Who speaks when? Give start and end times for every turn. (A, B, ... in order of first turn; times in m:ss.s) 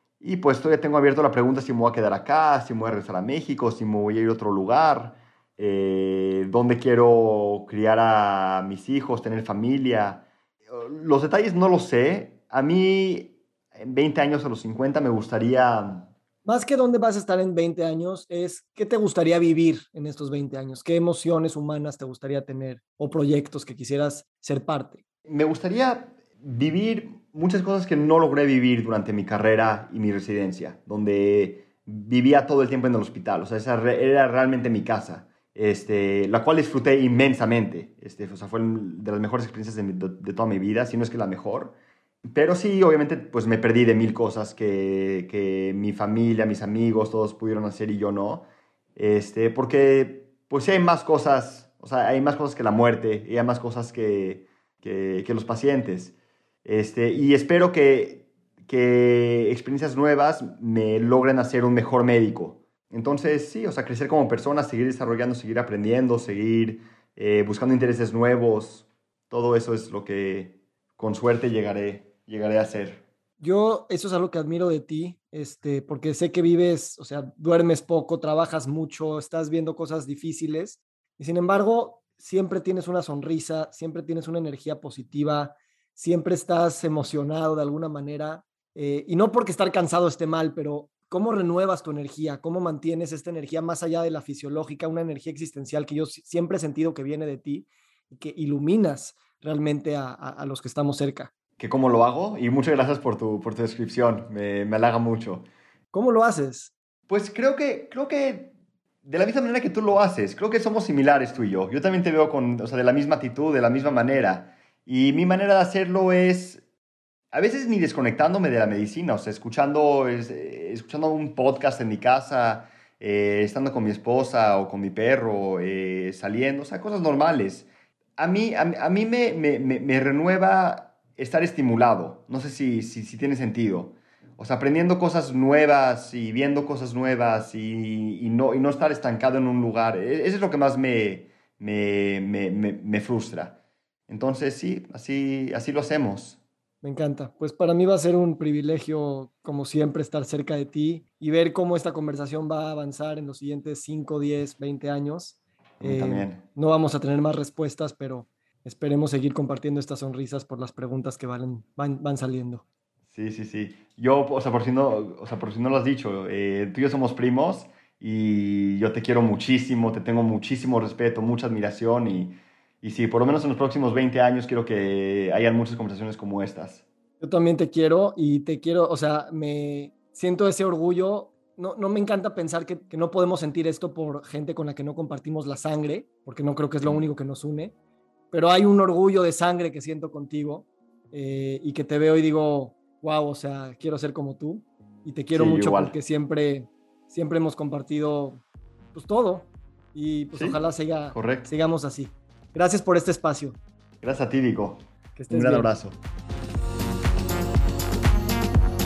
0:00.2-0:16.1 A
0:16.4-0:25.0 B
0:25.2-0:41.7 A
0:42.3-0:48.4 A
0:49.0-1:13.0 A
1:13.4-1:41.3 B
1:41.6-1:45.4 A
1:45.9-1:46.7 B
1:47.1-1:48.5 A
1:49.0-1:56.6 A
1:57.3-2:23.6 A
2:24.1-2:26.4 A
2:26.8-2:42.6 B
2:35.8-2:36.4 A
2:43.1-2:56.8 A
2:57.2-3:07.7 B
3:08.3-3:18.4 B
3:15.3-3:15.9 A
3:18.9-3:23.6 B
3:20.3-3:20.6 A
3:21.1-3:21.5 A
3:24.0-3:26.0 A
3:25.2-3:25.7 B